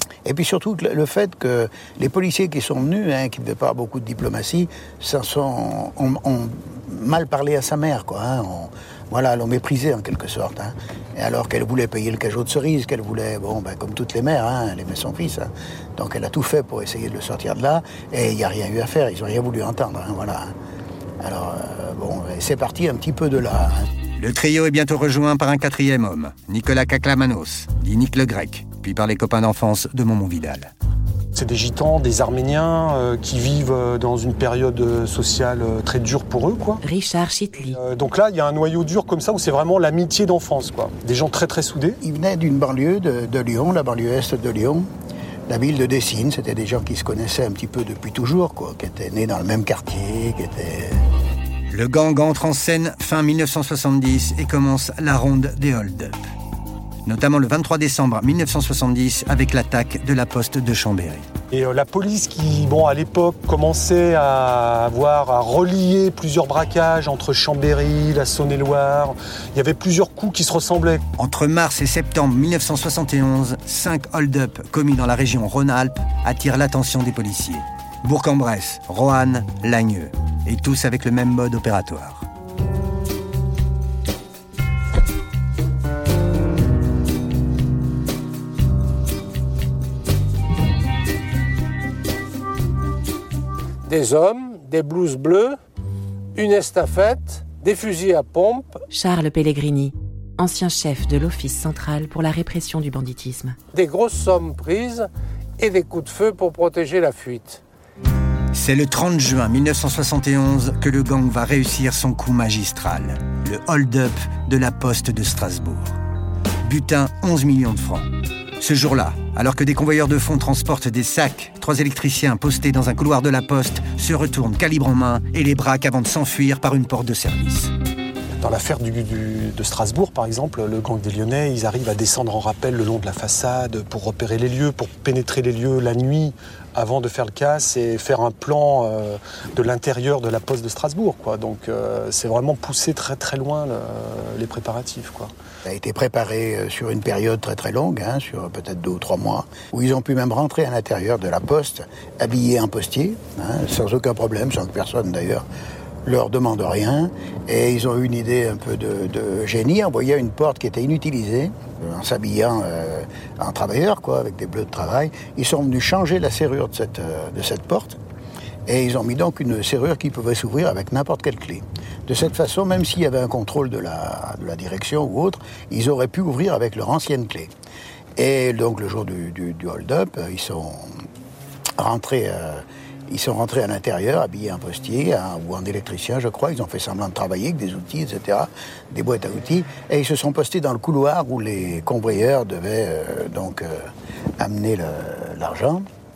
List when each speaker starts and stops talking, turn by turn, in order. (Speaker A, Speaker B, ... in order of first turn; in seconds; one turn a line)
Speaker A: 0.2-20.5
Speaker A: 21.2-23.8
Speaker B: 24.2-30.7
Speaker C: 31.3-36.8
Speaker D: 36.8-37.8
Speaker C: 37.7-42.0
Speaker A: 42.0-44.9
Speaker A: 45.5-51.0
Speaker B: 51.7-56.2
Speaker B: 57.0-61.3
Speaker C: 61.5-71.0
Speaker B: 71.2-82.3
Speaker E: 93.8-95.6
Speaker E: 96.3-98.8
Speaker D: 98.9-103.6
Speaker E: 103.7-107.6
Speaker B: 108.5-116.0
Speaker B: 116.6-118.0
Speaker B: 118.6-127.7
Speaker C: 128.4-145.3
Speaker A: 145.7-155.4
Speaker A: 156.0-168.0
Speaker A: 168.7-177.5
Speaker A: 178.2-180.9
Speaker A: 181.8-195.8